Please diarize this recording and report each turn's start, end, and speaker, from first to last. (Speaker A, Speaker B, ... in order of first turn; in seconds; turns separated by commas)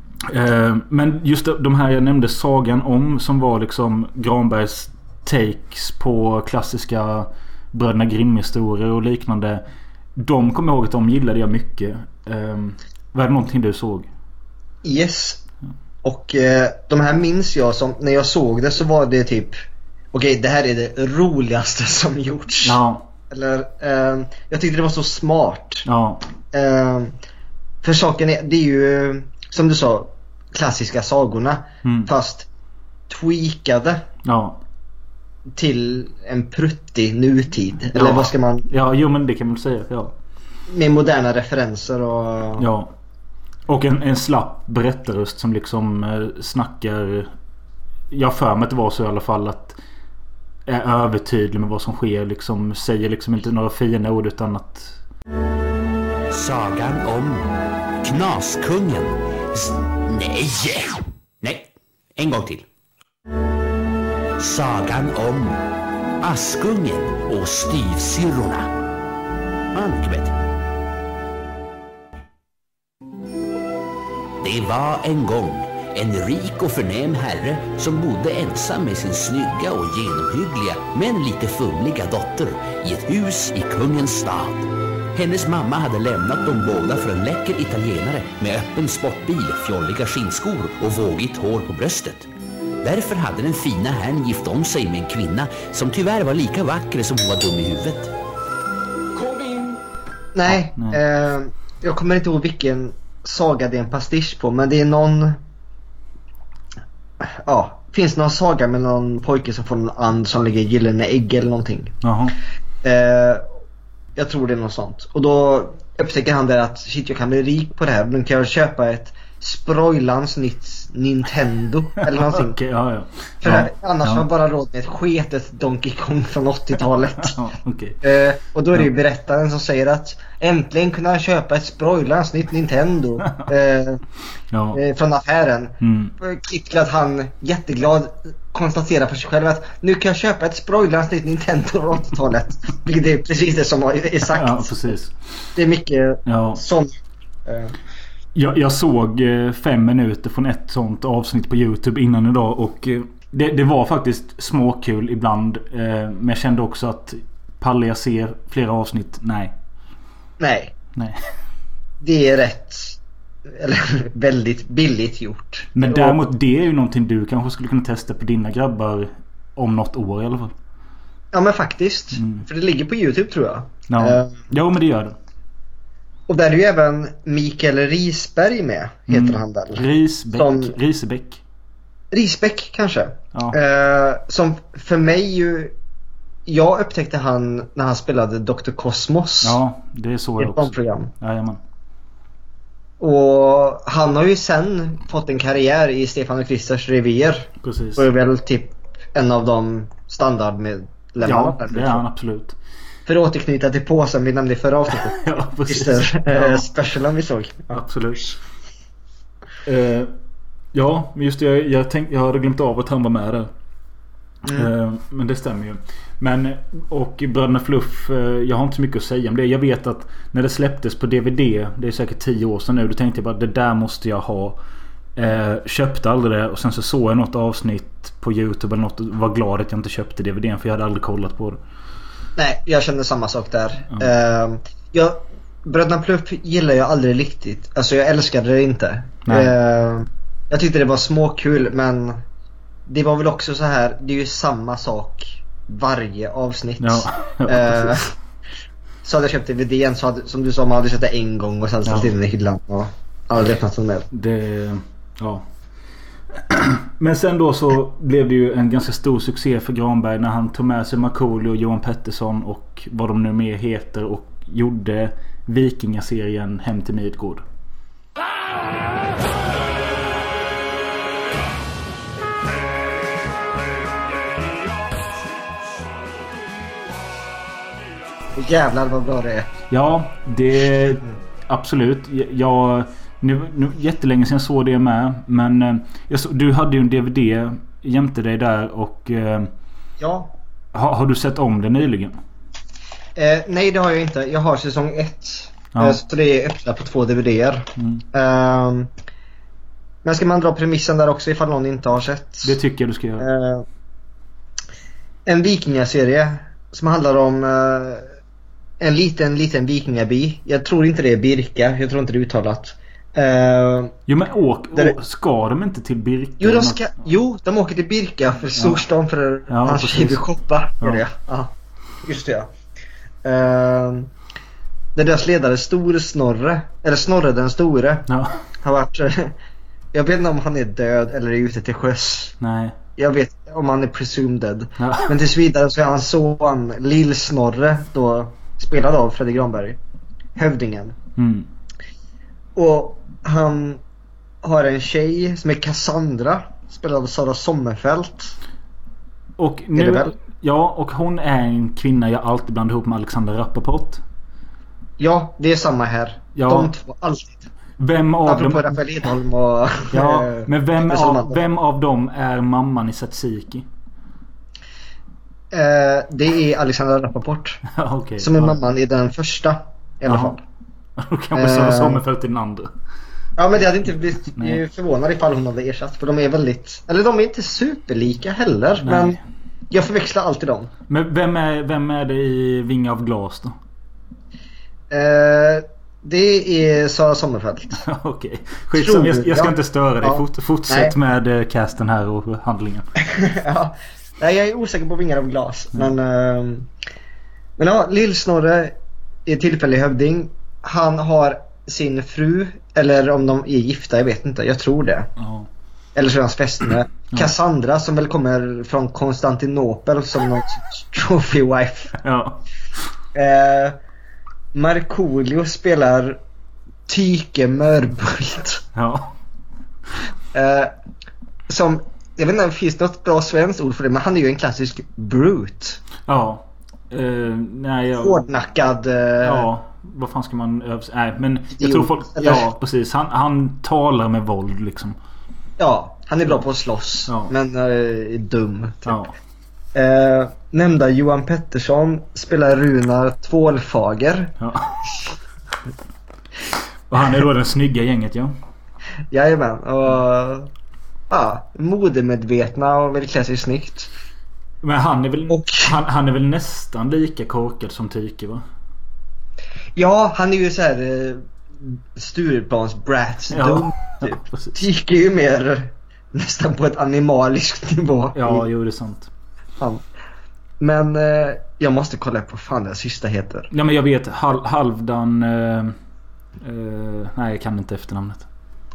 Speaker A: 0.2-9.6, Speaker A: 10.2-14.1, Speaker B: 14.8-15.4, Speaker B: 16.0-19.6, Speaker B: 20.1-22.8, Speaker A: 22.6-23.1, Speaker B: 23.3-25.9, Speaker A: 25.9-26.2, Speaker B: 26.5-27.1, Speaker B: 27.8-32.5, Speaker A: 31.8-32.1, Speaker B: 33.1-34.0, Speaker A: 34.2-34.6, Speaker B: 35.5-38.6, Speaker A: 37.9-40.1, Speaker B: 40.7-42.7, Speaker A: 42.6-42.9, Speaker A: 43.7-47.3, Speaker A: 48.1-49.8, Speaker A: 50.6-55.0, Speaker C: 56.3-57.4, Speaker C: 58.0-62.6, Speaker C: 64.4-65.6, Speaker C: 66.2-68.7, Speaker C: 69.7-70.3, Speaker C: 74.4-92.3, Speaker C: 92.8-98.1, Speaker B: 100.3-105.4, Speaker A: 100.5-101.0, Speaker B: 107.2-112.0, Speaker A: 112.0-112.3, Speaker B: 112.8-113.5, Speaker B: 114.2-122.6, Speaker A: 122.0-124.2, Speaker B: 123.4-127.4, Speaker A: 127.2-128.0, Speaker B: 128.0-134.0, Speaker A: 134.5-134.8, Speaker B: 134.7-144.9, Speaker A: 135.8-136.1, Speaker A: 144.3-145.1, Speaker B: 145.6-147.8, Speaker A: 146.3-146.6, Speaker A: 148.3-159.5, Speaker B: 160.4-160.7, Speaker A: 160.9-161.2, Speaker B: 162.0-166.2, Speaker A: 165.7-170.5, Speaker B: 171.3-174.4, Speaker A: 172.1-172.4, Speaker A: 173.9-175.2, Speaker B: 176.3-180.7, Speaker A: 179.1-181.4, Speaker B: 182.1-185.7, Speaker B: 186.4-189.6, Speaker A: 189.4-191.6, Speaker B: 190.4-191.1, Speaker B: 193.0-202.0, Speaker A: 197.6-198.1, Speaker A: 201.2-202.6, Speaker B: 203.1-207.8, Speaker A: 204.9-206.7, Speaker A: 207.7-208.4, Speaker A: 209.7-210.1, Speaker A: 210.7-213.5, Speaker A: 214.5-224.6, Speaker A: 225.2-231.6, Speaker B: 232.4-242.2, Speaker A: 239.2-239.6, Speaker B: 242.9-248.1, Speaker A: 246.8-248.0, Speaker B: 249.0-254.1, Speaker A: 251.8-252.1, Speaker A: 254.1-255.4, Speaker A: 256.3-267.4, Speaker B: 278.3-279.5, Speaker A: 279.7-289.5, Speaker B: 290.0-290.3, Speaker A: 290.7-292.2, Speaker B: 293.2-298.9, Speaker A: 295.7-296.0, Speaker A: 297.8-298.0, Speaker B: 300.0-302.6, Speaker A: 302.4-303.3, Speaker B: 303.2-303.6, Speaker B: 305.2-308.1, Speaker B: 308.8-314.0, Speaker A: 314.1-316.9, Speaker B: 316.4-322.5, Speaker A: 318.5-318.8, Speaker A: 319.5-320.2, Speaker B: 323.2-324.1, Speaker B: 324.9-328.1, Speaker A: 328.1-328.4, Speaker B: 328.6-329.4, Speaker B: 329.9-332.3, Speaker A: 332.4-332.8, Speaker B: 333.0-339.8, Speaker A: 334.8-335.1, Speaker B: 340.4-340.9, Speaker A: 341.2-341.5, Speaker B: 342.6-343.8, Speaker B: 344.4-348.4, Speaker A: 349.4-354.0, Speaker B: 349.8-350.1, Speaker B: 355.0-357.5, Speaker A: 356.3-356.7, Speaker A: 357.8-358.7, Speaker B: 358.2-361.4, Speaker A: 359.9-363.7, Speaker B: 365.5-367.6, Speaker A: 367.7-368.6, Speaker B: 368.2-370.4, Speaker A: 370.1-370.4, Speaker A: 371.0-372.7, Speaker B: 371.3-372.0, Speaker B: 373.4-379.2, Speaker A: 374.3-374.6, Speaker A: 378.8-379.2, Speaker B: 379.7-380.7, Speaker A: 380.9-383.5, Speaker B: 384.9-387.8, Speaker A: 387.7-392.9, Speaker B: 388.7-390.9, Speaker B: 393.1-396.7, Speaker B: 397.6-398.7, Speaker B: 399.2-405.1, Speaker A: 405.2-405.5, Speaker B: 405.9-411.9, Speaker A: 412.0-412.4, Speaker B: 413.1-413.8, Speaker B: 414.5-416.2, Speaker B: 416.9-418.6, Speaker A: 418.7-419.1, Speaker B: 420.3-420.7, Speaker B: 421.5-425.8, Speaker A: 426.1-428.2, Speaker B: 428.0-429.5, Speaker A: 429.2-435.0, Speaker B: 431.5-432.4, Speaker B: 435.6-438.9, Speaker A: 438.9-439.1, Speaker B: 439.7-444.3, Speaker A: 444.4-444.8, Speaker A: 446.9-448.3, Speaker B: 449.1-450.5, Speaker B: 451.1-453.9, Speaker A: 454.6-458.4, Speaker B: 455.3-455.7, Speaker B: 459.8-468.5, Speaker A: 463.3-464.6, Speaker A: 468.1-469.1, Speaker B: 470.6-473.5, Speaker A: 473.5-475.8, Speaker A: 476.4-478.3